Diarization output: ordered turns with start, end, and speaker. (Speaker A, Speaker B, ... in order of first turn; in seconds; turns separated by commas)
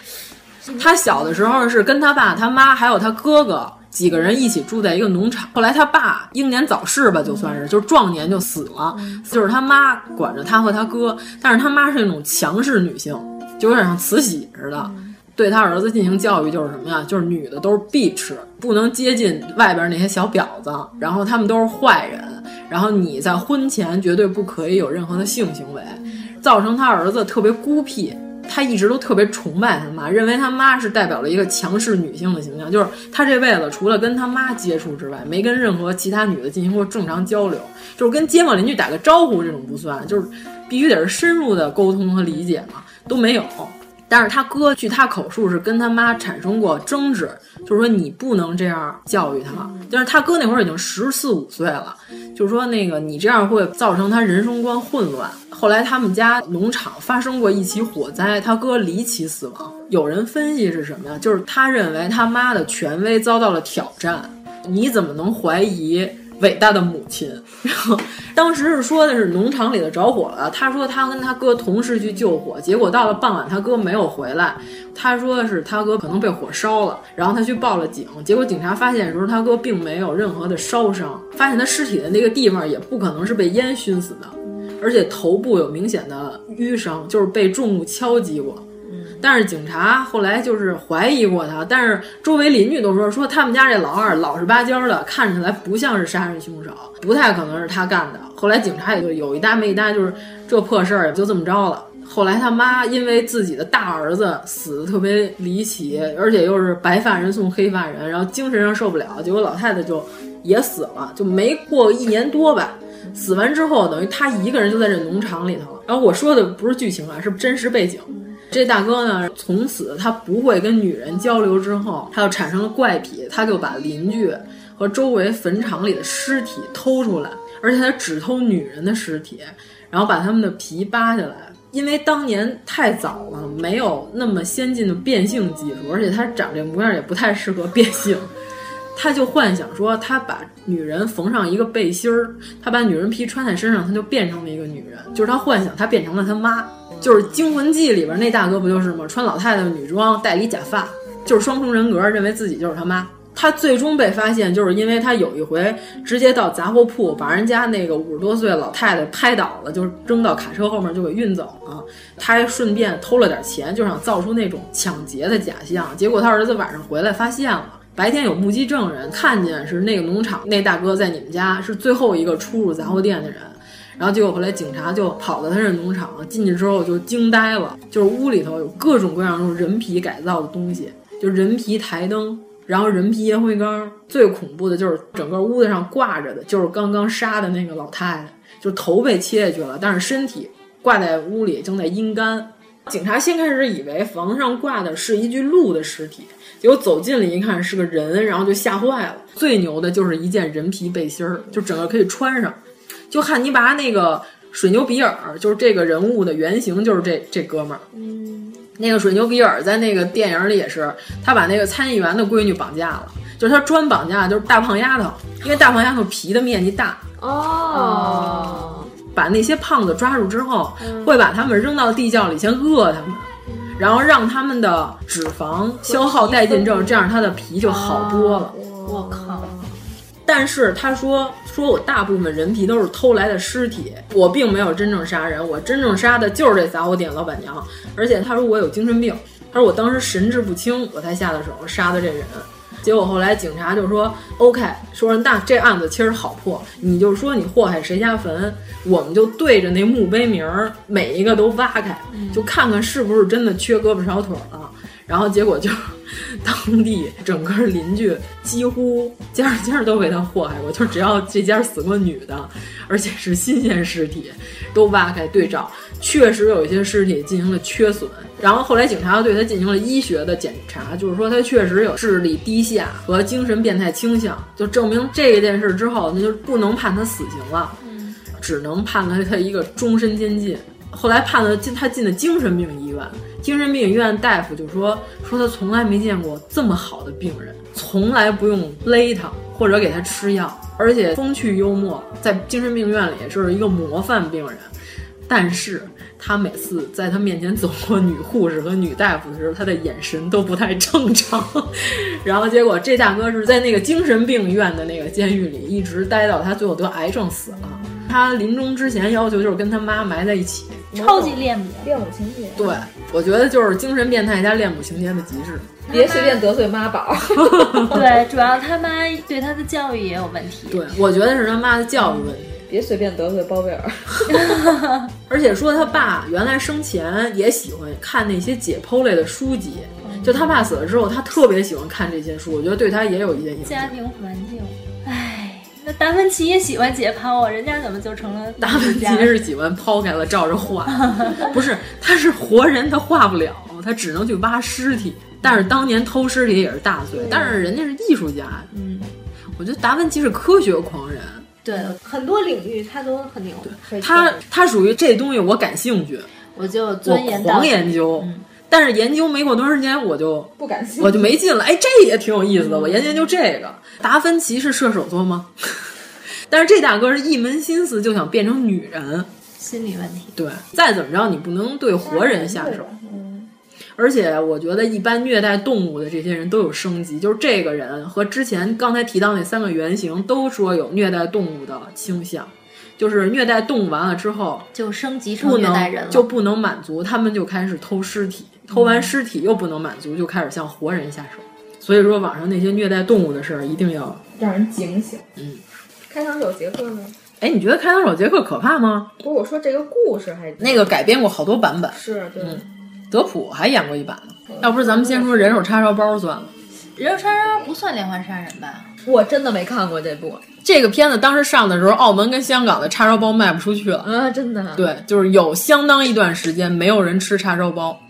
Speaker A: 0.7-88.6, Speaker B: 8.9-9.2, Speaker B: 14.8-15.1, Speaker B: 88.8-89.2, Speaker A: 89.2-138.3, Speaker A: 138.9-202.6, Speaker A: 203.1-207.8, Speaker B: 207.9-208.6, Speaker A: 208.8-217.0, Speaker B: 217.2-218.9, Speaker C: 217.8-218.6, Speaker A: 219.0-228.5, Speaker B: 225.8-227.0, Speaker C: 228.1-229.7, Speaker B: 228.3-229.8, Speaker A: 230.2-277.8, Speaker C: 252.1-252.4, Speaker C: 277.8-278.1, Speaker A: 278.4-294.7, Speaker A: 295.3-310.9, Speaker B: 310.9-312.8, Speaker C: 310.9-311.9, Speaker A: 312.6-315.8, Speaker C: 315.9-316.4, Speaker B: 315.9-318.0, Speaker A: 317.4-318.0, Speaker C: 317.9-320.9, Speaker A: 320.7-322.5, Speaker B: 322.6-324.5, Speaker C: 324.3-325.1, Speaker A: 325.3-333.9, Speaker B: 330.0-330.4, Speaker C: 330.0-330.6, Speaker C: 333.6-339.4, Speaker A: 338.6-348.7, Speaker C: 341.0-341.5, Speaker C: 345.4-345.7, Speaker C: 348.7-349.1, Speaker A: 349.6-351.5, Speaker C: 351.6-353.9, Speaker B: 353.9-354.4, Speaker A: 354.0-356.3, Speaker C: 356.5-358.4, Speaker A: 357.0-365.9, Speaker B: 360.6-361.4, Speaker C: 362.7-363.2, Speaker A: 366.5-369.3, Speaker C: 369.6-370.3, Speaker A: 370.4-372.9, Speaker B: 372.0-373.5, Speaker A: 374.0-384.7, Speaker C: 384.7-386.3, Speaker A: 385.4-394.2, Speaker C: 388.7-389.1, Speaker B: 394.4-395.2, Speaker A: 395.4-395.6, Speaker B: 396.1-397.1, Speaker A: 397.4-399.1, Speaker B: 399.2-401.0, Speaker A: 400.6-406.5, Speaker B: 401.9-402.6, Speaker B: 404.5-405.6, Speaker C: 406.9-408.9, Speaker B: 409.1-410.4, Speaker A: 410.6-414.1, Speaker B: 414.0-414.9, Speaker A: 414.8-418.0